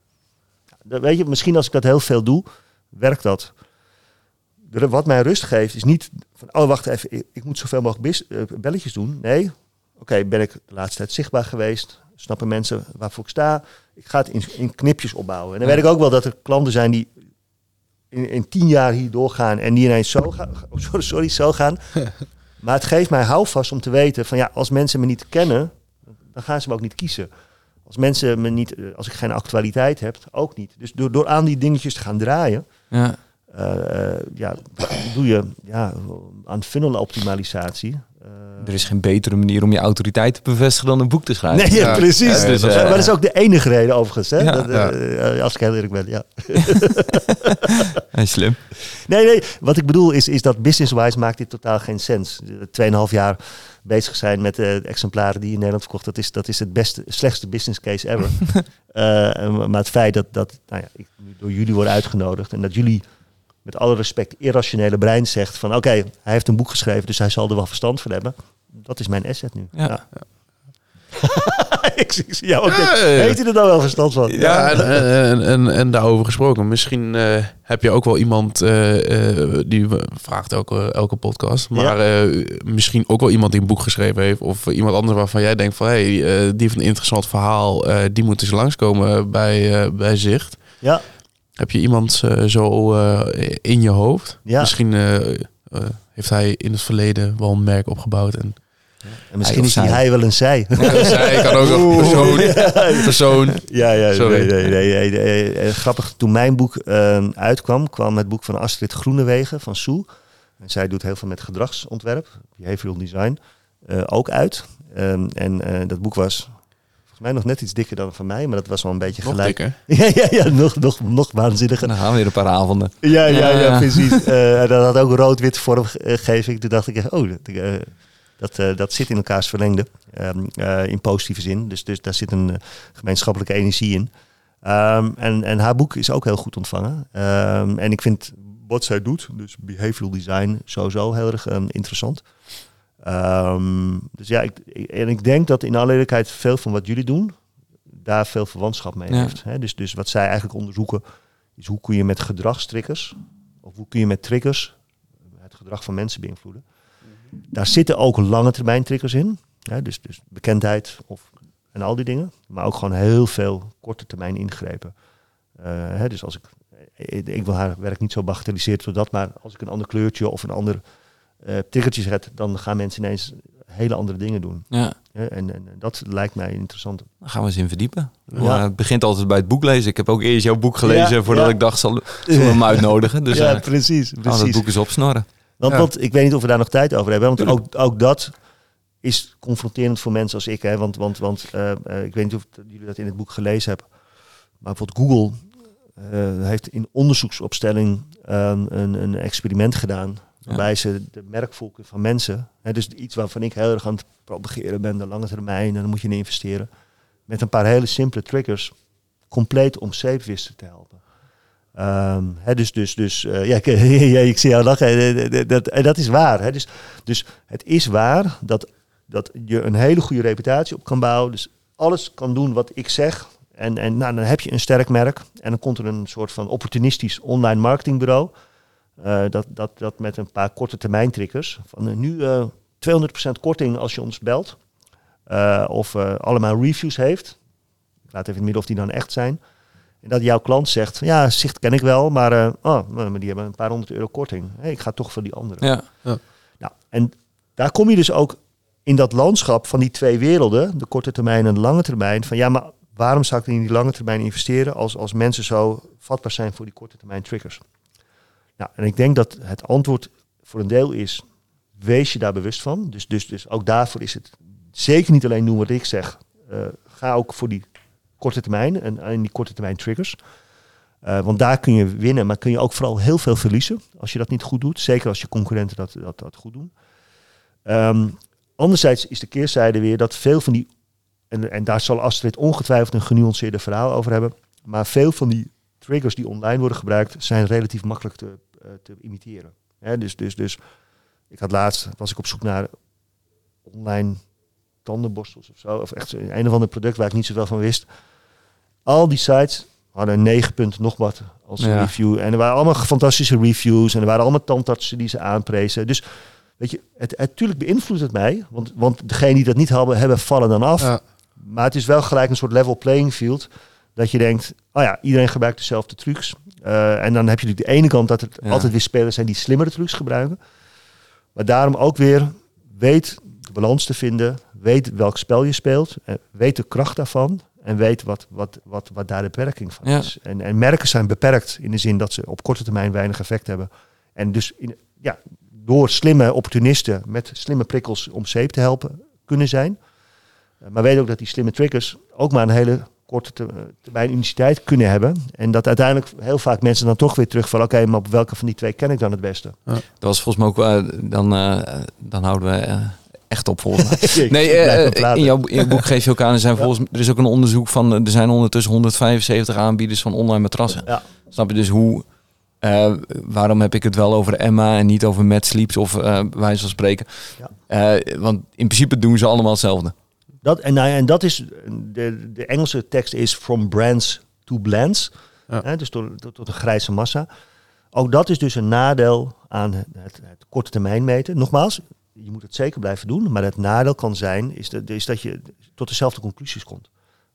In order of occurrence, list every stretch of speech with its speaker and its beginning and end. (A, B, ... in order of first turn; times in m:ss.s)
0:00.8-0:03.5 A
0:04.7-0:17.1 A
0:18.1-0:25.7 A
0:26.3-0:27.3 A
0:27.8-0:32.6 A
0:32.9-0:33.2 B
0:33.5-0:38.7 A
0:38.6-0:43.1 B
0:41.5-0:48.0 A
0:41.8-0:42.9 C
0:44.4-0:44.7 B
0:48.1-0:48.6 B
0:48.8-1:03.0 A
1:03.6-1:10.1 A
1:11.1-1:15.0 A
1:12.7-1:13.4 C
1:14.3-1:14.8 B
1:14.3-1:30.6 C
1:31.6-1:38.6 C
1:34.4-1:34.7 A
1:39.3-1:50.1 A
1:39.4-1:40.0 B
1:40.8-1:42.8 B
1:40.8-1:44.5 C
1:50.6-1:56.5 A
1:57.1-2:01.9 A
1:59.2-1:59.8 C
2:01.8-2:04.2 B
2:03.0-2:14.1 A
2:14.6-2:22.2 A
2:23.0-2:27.4 A
2:27.9-2:31.0 A
2:29.1-2:29.4 B
2:31.6-2:34.8 A
2:35.4-2:36.6 A
2:37.5-2:44.9 A
2:45.6-2:50.8 A
2:51.4-2:57.1 A
2:54.7-2:55.0 B
2:57.2-3:03.7 B
2:58.4-2:58.6 A
3:00.8-3:04.7 A
3:04.2-3:05.2 B
3:05.6-3:08.3 A
3:09.0-3:13.9 A
3:14.6-3:15.4 A
3:16.0-3:26.7 A
3:27.3-3:28.7 A
3:29.3-3:31.0 A
3:31.7-3:48.3 A
3:49.0-3:54.6 A
3:55.3-3:57.4 A
3:58.1-3:59.4 A
4:00.0-4:05.7 A
4:05.6-4:05.8 B
4:06.6-4:17.6 A
4:18.6-4:21.2 A
4:21.8-4:27.6 A
4:28.2-4:30.2 A
4:31.0-4:36.7 A
4:37.6-4:40.7 A
4:41.3-4:50.6 A
4:51.3-4:52.7 A
4:53.6-4:54.2 A
4:54.8-4:57.9 A
4:58.8-5:06.0 A
5:01.6-5:01.9 B
5:06.6-5:20.4 A
5:18.4-5:18.7 B
5:21.3-5:39.8 A
5:29.8-5:30.1 B
5:40.6-5:49.6 A
5:50.0-6:02.1 B
5:53.8-5:55.9 A
6:02.6-6:09.9 B
6:10.4-6:17.3 A
6:17.9-6:26.9 A